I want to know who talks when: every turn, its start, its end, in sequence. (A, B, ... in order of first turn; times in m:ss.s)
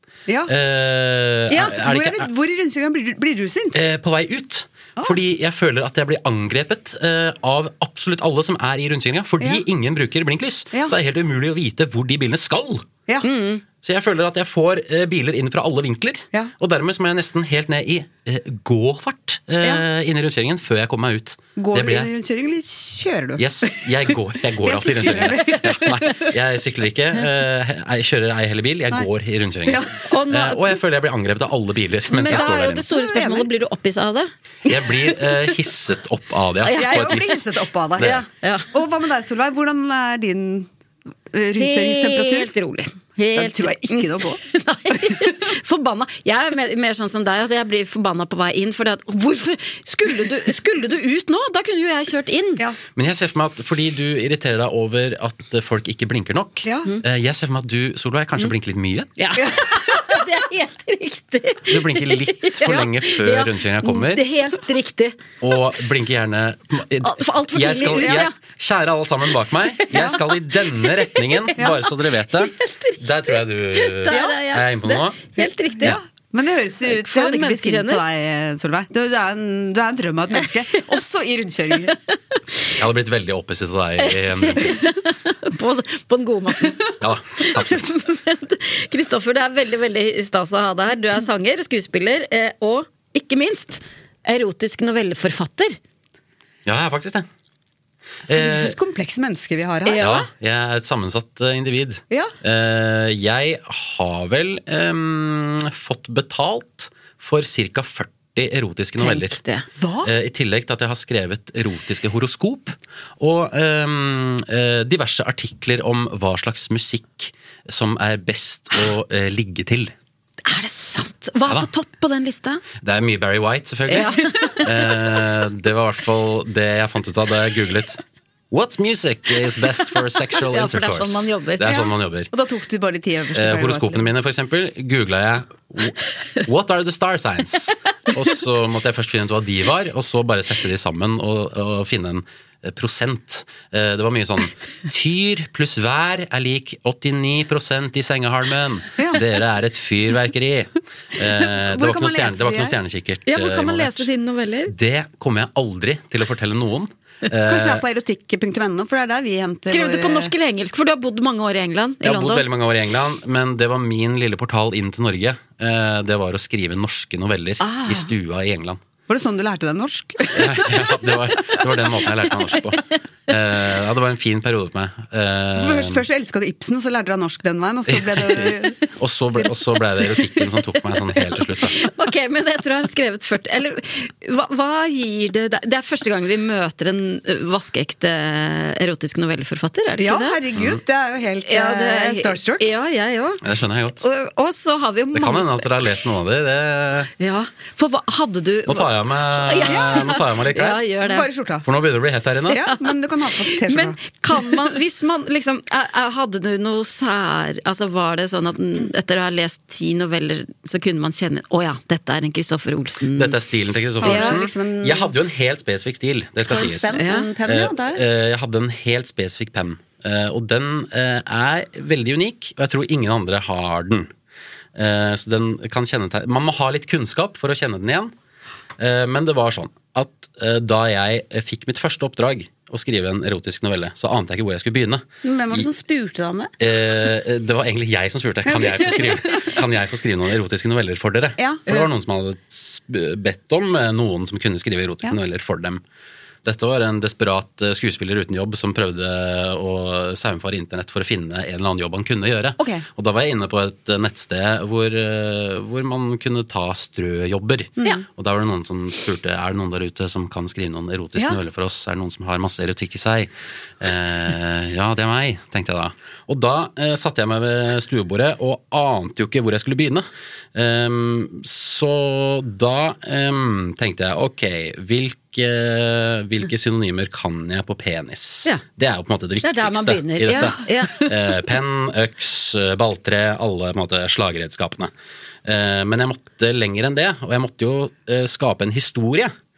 0:00.3-0:00.5 A
0:00.5-0:02.3 B
0:01.5-0:03.8 A
0:03.7-0:12.9 B
0:13.2-0:13.6 C
0:13.8-0:22.1 B
0:21.6-0:23.9 A
0:23.4-0:32.8 B
0:24.6-0:26.3 A
0:29.6-0:30.0 A
0:30.1-0:30.8 C
0:32.1-0:34.3 C
0:32.2-0:33.5 A
0:34.6-0:37.4 B
0:36.6-0:37.4 C
0:36.7-0:38.2 A
0:38.0-0:38.2 B
0:38.0-0:38.7 C
0:38.7-0:40.7 A
0:41.3-0:42.5 A
0:41.6-0:52.7 C
0:43.4-0:44.4 A
0:53.0-0:59.1 B
0:56.6-0:56.9 A
0:59.2-1:05.2 C
1:01.7-1:04.2 B
1:05.4-1:15.2 B
1:07.0-1:08.4 C
1:09.8-1:11.7 C
1:12.4-1:16.0 C
1:14.1-1:14.4 A
1:15.8-1:22.0 A
1:16.9-1:18.0 C
1:22.8-1:24.8 B
1:24.0-1:26.8 C
1:27.0-1:27.9 B
1:27.4-1:35.8 C
1:36.7-1:37.3 B
1:38.3-1:38.8 B
1:38.3-1:40.1 A
1:39.8-1:40.3 C
1:40.0-1:49.4 B
1:49.0-1:49.7 C
1:49.8-1:50.1 A
1:50.0-1:59.9 B
2:00.4-2:02.6 C
2:02.8-2:12.3 B
2:03.9-2:04.7 C
2:10.5-2:11.8 C
2:11.6-2:14.1 A
2:13.3-2:34.1 B
2:29.0-2:29.2 A
2:31.2-2:32.7 A
2:33.3-2:34.7 C
2:34.7-2:37.8 B
2:37.4-2:40.3 A
2:39.7-2:42.4 C
2:42.0-2:48.8 B
2:47.6-2:48.1 C
2:49.1-2:50.8 A
2:50.3-2:56.0 B
2:55.5-2:58.8 A
2:57.9-3:01.8 B
3:01.4-3:10.4 C
3:10.0-3:12.7 A
3:10.5-3:10.8 B
3:11.5-3:13.4 C
3:13.4-3:14.0 B
3:14.0-3:15.7 C
3:15.1-3:17.1 B
3:17.2-3:21.3 C
3:18.7-3:20.8 B
3:19.7-3:20.1 A
3:21.0-3:21.7 A
3:21.6-3:22.6 B
3:22.5-3:24.5 A
3:22.5-3:33.4 C
3:33.1-3:44.1 B
3:34.0-3:34.4 C
3:34.0-3:35.4 A
3:36.5-3:38.0 A
3:36.9-3:37.3 C
3:44.7-3:48.1 B
3:48.8-3:55.7 B
3:55.2-3:56.5 A
3:56.6-4:05.8 B
3:58.5-3:59.6 A
4:01.4-4:01.9 A
4:06.4-4:44.9 B
4:12.6-4:12.8 A
4:39.4-4:41.0 C
4:45.4-4:49.3 B